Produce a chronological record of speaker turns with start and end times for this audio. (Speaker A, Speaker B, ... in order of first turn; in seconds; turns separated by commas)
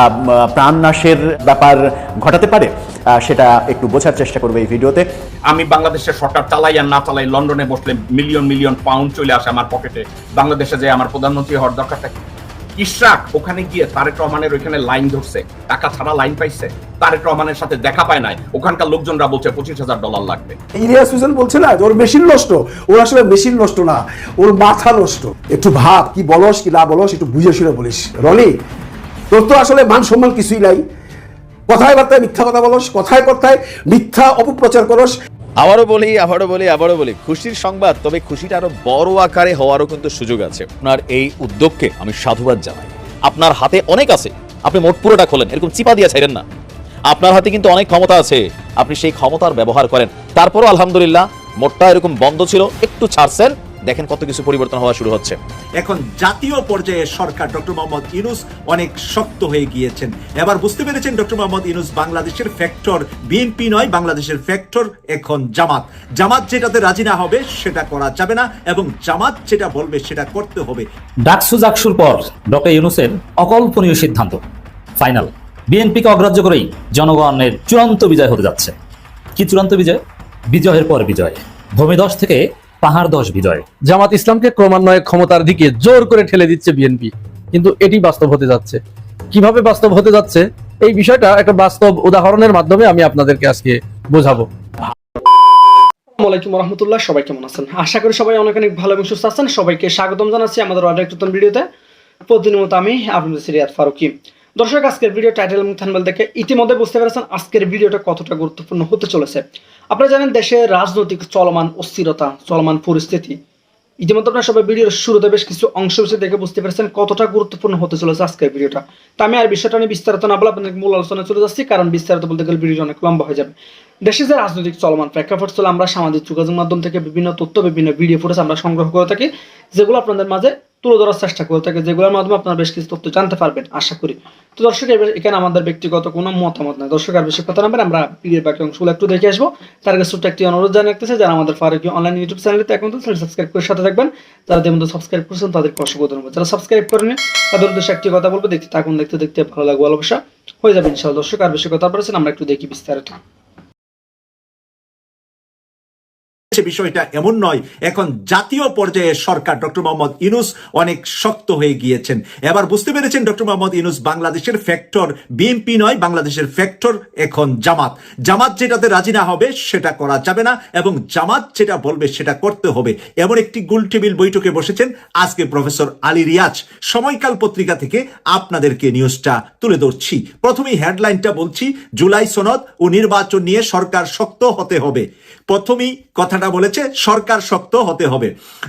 Speaker A: 0.5-5.0, Speaker B: 5.5-12.2, Speaker B: 12.8-20.6, Speaker C: 20.7-28.5, Speaker C: 29.3-30.8, Speaker C: 31.7-35.1, Speaker D: 35.6-46.4, Speaker D: 47.1-55.4, Speaker E: 55.8-70.8, Speaker F: 71.2-74.4, Speaker F: 75.0-78.8, Speaker F: 79.4-83.7, Speaker G: 83.9-88.8, Speaker G: 89.3-94.5, Speaker H: 96.2-101.7, Speaker H: 102.3-113.4, Speaker H: 114.0-153.2, Speaker E: 156.5-188.3